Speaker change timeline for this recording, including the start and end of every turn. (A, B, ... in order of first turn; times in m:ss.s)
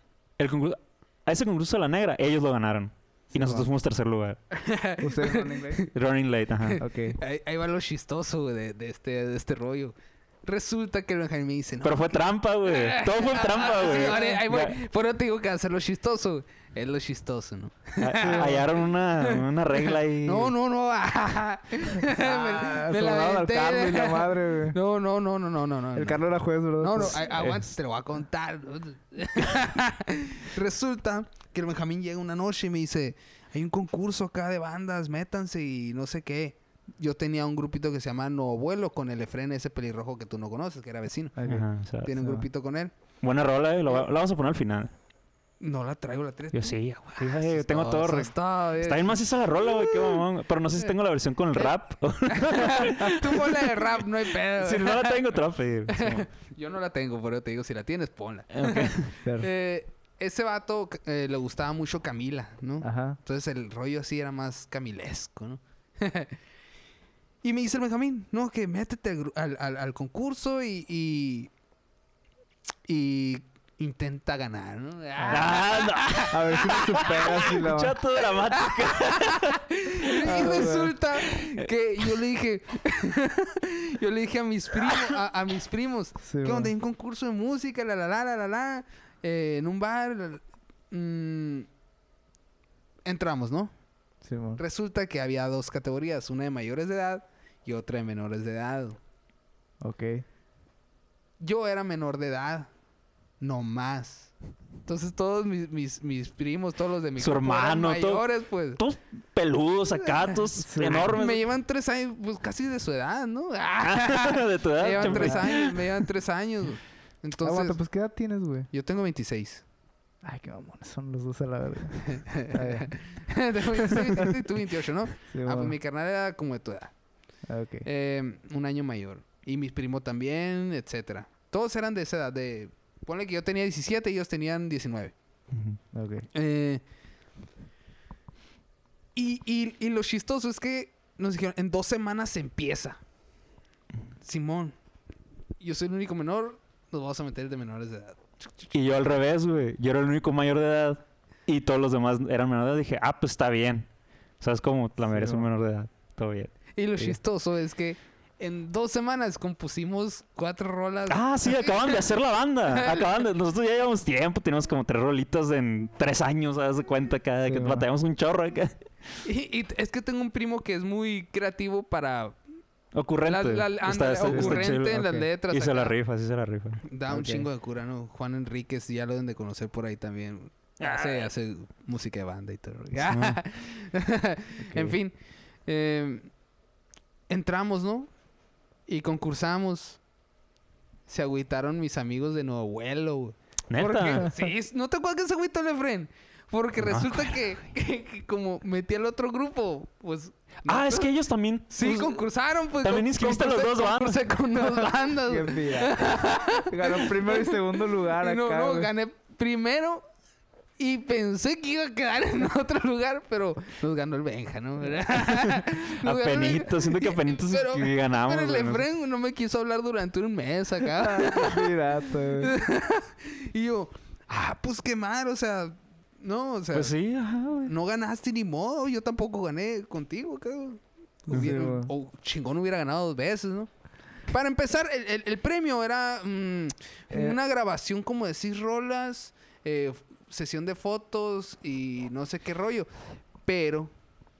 0:00.4-0:04.4 A
0:03.3-0:03.7 B
0:04.5-0:05.9 C
0:05.0-0:05.9 B
0:05.9-0:06.8 A
0:06.6-0:18.6 C
0:06.8-0:07.2 B
0:11.8-0:14.8 A
0:18.0-0:20.5 A
0:18.2-0:18.6 B
0:19.2-0:26.2 C
0:21.9-0:24.8 B
0:25.9-0:27.2 B
0:26.8-0:41.4 C
0:27.1-0:27.6 A
0:41.4-0:42.4 B
0:41.4-0:42.1 A
0:42.0-0:42.9 C
0:43.2-0:44.9 A
0:45.6-0:50.2 C
0:46.5-0:53.7 A
0:52.3-0:55.3 C
0:54.5-0:56.2 A
0:55.9-1:06.3 C
0:58.5-0:59.1 A
0:59.2-0:59.5 B
1:02.8-1:03.2 B
1:07.4-1:11.5 C
1:12.9-1:17.5 C
1:15.2-1:15.6 B
1:15.3-1:20.7 A
1:16.2-1:18.0 B
1:18.5-1:31.7 C
1:20.2-1:21.0 B
1:21.2-1:21.7 A
1:26.2-1:26.7 B
1:33.0-1:33.7 C
1:34.2-1:34.6 B
1:34.6-1:39.0 C
1:39.8-1:40.2 B
1:41.4-1:42.7 C
1:43.4-1:44.3 C
1:44.8-1:48.8 C
1:47.2-1:48.2 A
1:48.8-1:51.4 A
1:50.0-1:50.3 C
1:50.6-1:51.2 B
1:51.0-1:57.8 C
1:53.8-1:55.8 A
1:55.0-1:55.5 B
1:57.4-1:58.7 B
1:58.7-1:59.6 C
2:00.2-2:02.9 B
2:02.0-2:06.9 C
2:03.8-2:04.3 B
2:05.3-2:05.8 B
2:07.5-2:07.9 B
2:07.8-2:15.1 C
2:15.5-2:15.8 A
2:15.9-2:16.3 B
2:16.3-2:16.8 C
2:19.2-2:23.0 C
2:24.2-2:24.7 C
2:25.6-2:28.7 C
2:28.7-2:33.9 A
2:34.4-2:36.5 A
2:35.1-2:35.5 B
2:36.8-2:42.0 C
2:41.1-2:48.8 A
2:42.7-2:43.1 C
2:47.4-2:47.9 B
2:49.2-2:52.4 C
2:52.9-2:56.8 A
2:53.2-2:55.9 C
2:54.3-2:55.2 B
2:56.8-3:05.1 C
2:57.1-2:57.5 B
3:00.8-3:01.3 A
3:03.0-3:03.4 A
3:04.6-3:05.0 B
3:05.7-3:06.3 C
3:07.3-3:08.1 C
3:08.9-3:10.0 C
3:11.1-3:21.1 C
3:13.7-3:14.3 A
3:16.8-3:17.4 A
3:20.6-3:22.2 A
3:21.7-3:30.0 C
3:22.8-3:24.2 A
3:25.2-3:28.9 B
3:30.8-3:41.8 C
3:35.2-3:38.8 A
3:41.0-3:42.5 B
3:42.4-3:46.9 C
3:46.7-3:47.7 A
3:47.6-3:53.7 C
3:51.3-3:51.9 B
3:54.3-4:02.9 C
3:57.1-3:57.4 B
4:03.4-4:03.9 C